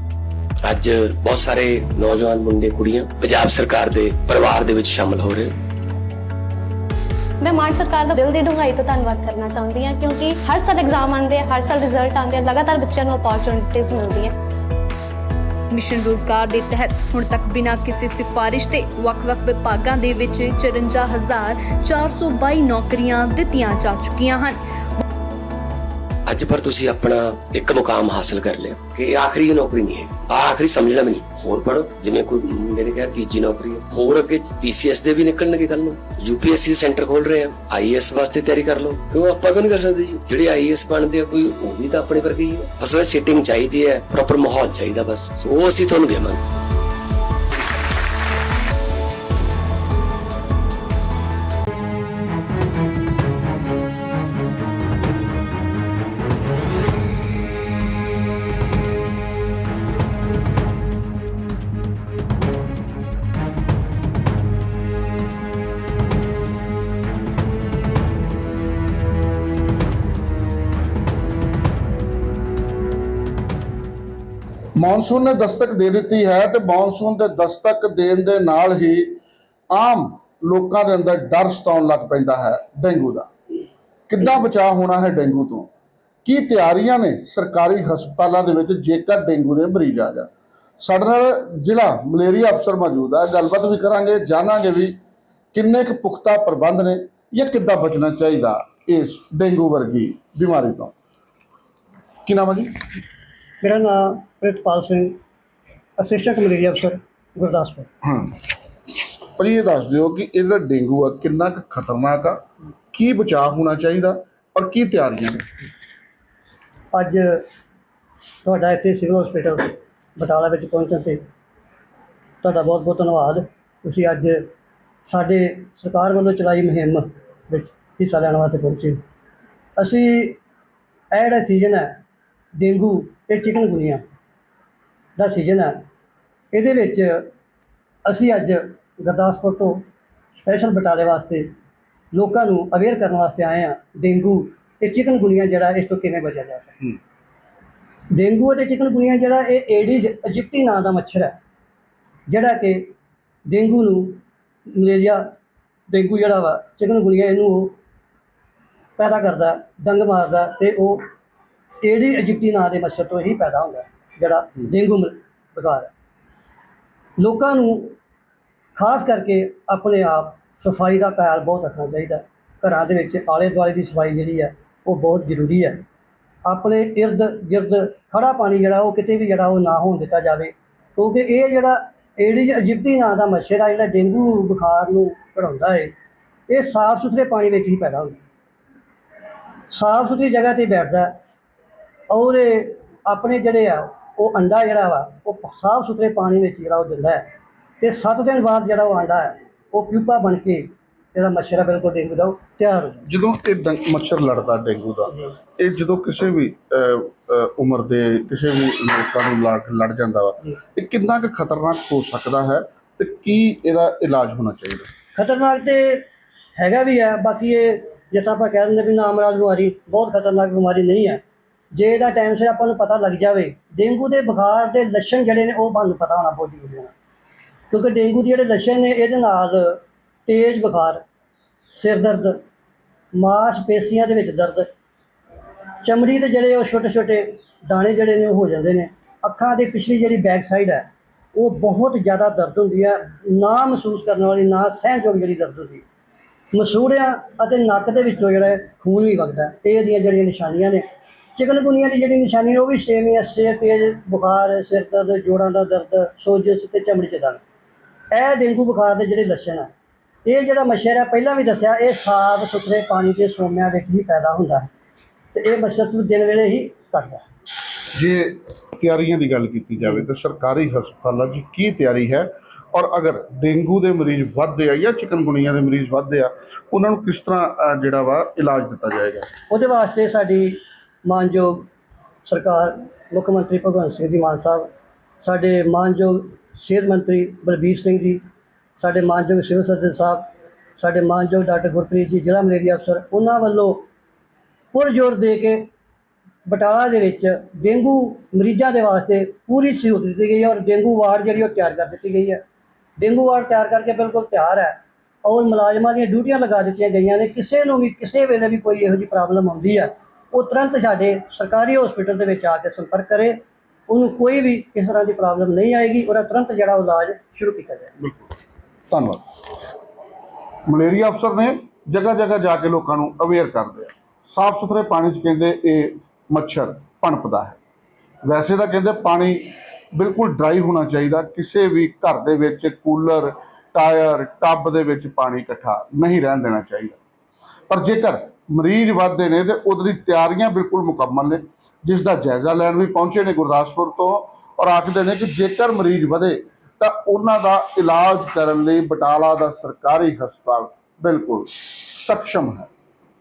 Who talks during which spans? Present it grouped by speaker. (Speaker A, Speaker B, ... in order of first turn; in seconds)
Speaker A: 0.6-5.5, 26.3-46.4
Speaker B: 7.4-14.3
Speaker C: 15.7-24.6
Speaker D: 74.8-79.2, 79.7-83.3, 84.1-85.7, 86.2-95.0, 95.5-100.9, 102.2-102.8, 108.0-108.4, 109.4-115.5, 203.1-214.9, 267.9-279.3, 318.9-319.2, 320.7-327.6, 328.2-337.0, 337.7-352.7
Speaker E: 103.6-105.2, 106.0-107.9, 116.9-117.4, 118.4-121.2, 122.4-124.5, 125.1-129.0, 129.8-130.4, 131.1-132.0, 132.5-134.0, 135.2-135.8, 136.5-137.3, 138.0-139.8, 140.4-141.5, 142.1-146.8, 148.1-151.4, 152.3-152.9, 153.5-155.2, 155.9-157.8, 159.0-161.1, 161.8-165.9, 167.2-168.0, 168.8-175.8, 176.4-185.9, 186.5-188.2, 189.7-191.2, 192.1-197.3, 197.8-203.1, 215.2-221.2, 221.7-226.9, 227.7-231.0, 231.7-232.4, 233.1-234.7, 235.8-245.8, 246.5-250.8, 251.3-257.4, 258.1-259.7, 260.2-264.7, 265.3-267.2, 279.5-281.7, 282.2-284.7, 285.2-288.2, 288.8-293.9, 294.7-295.7, 296.4-302.4, 303.0-317.9